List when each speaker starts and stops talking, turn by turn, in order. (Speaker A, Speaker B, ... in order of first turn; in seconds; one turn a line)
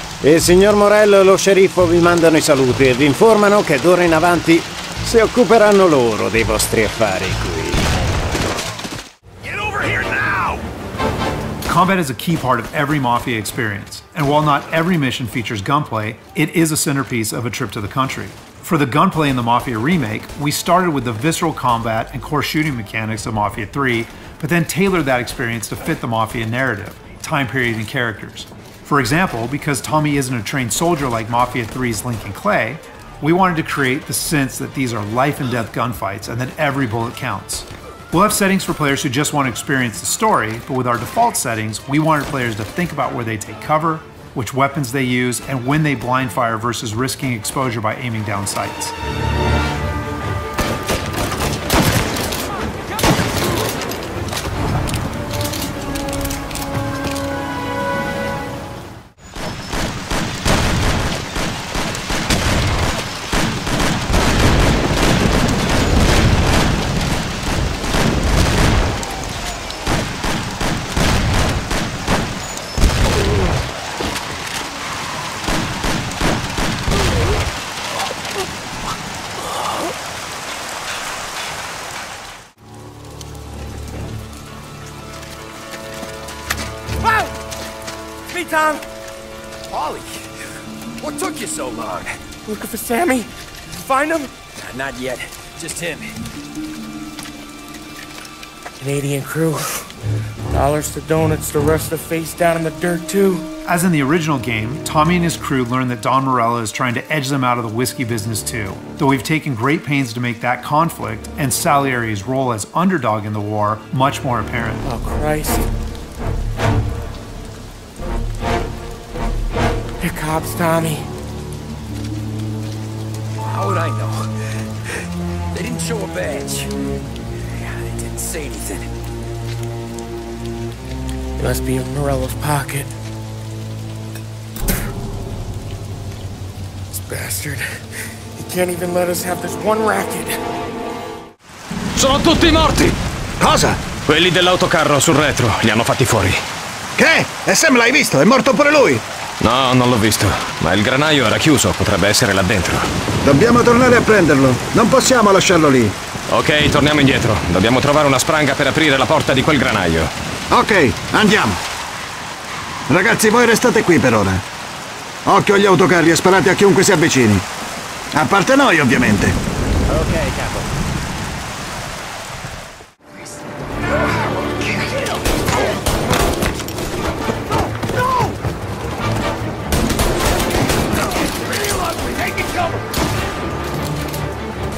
Speaker A: 0.2-7.9
Speaker A: 9.8-10.3
Speaker B: 11.7-48.9
Speaker C: 87.0-87.4
Speaker C: 88.3-88.8
Speaker D: 89.7-90.1
Speaker D: 91.0-92.1
Speaker C: 92.5-94.3
Speaker D: 94.6-96.1
Speaker C: 98.8-99.9
Speaker C: 100.5-103.5
Speaker B: 103.7-114.9
Speaker C: 114.8-115.7
Speaker C: 120.0-121.1
Speaker D: 123.5-124.3
Speaker D: 125.5-126.7
Speaker D: 127.6-128.9
Speaker C: 131.4-132.9
Speaker C: 136.9-140.4
Speaker E: 141.9-142.9
Speaker F: 143.4-143.8
Speaker E: 144.1-146.4
Speaker F: 146.9-149.0
Speaker E: 149.4-152.9
Speaker F: 153.2-155.9
Speaker E: 156.3-160.1
Speaker F: 160.5-161.6
Speaker F: 162.9-164.4
Speaker F: 165.2-167.5
Speaker F: 168.1-169.4
Speaker A: 169.9-170.7
Speaker C: 178.0-178.3
Speaker C: 181.2-182.8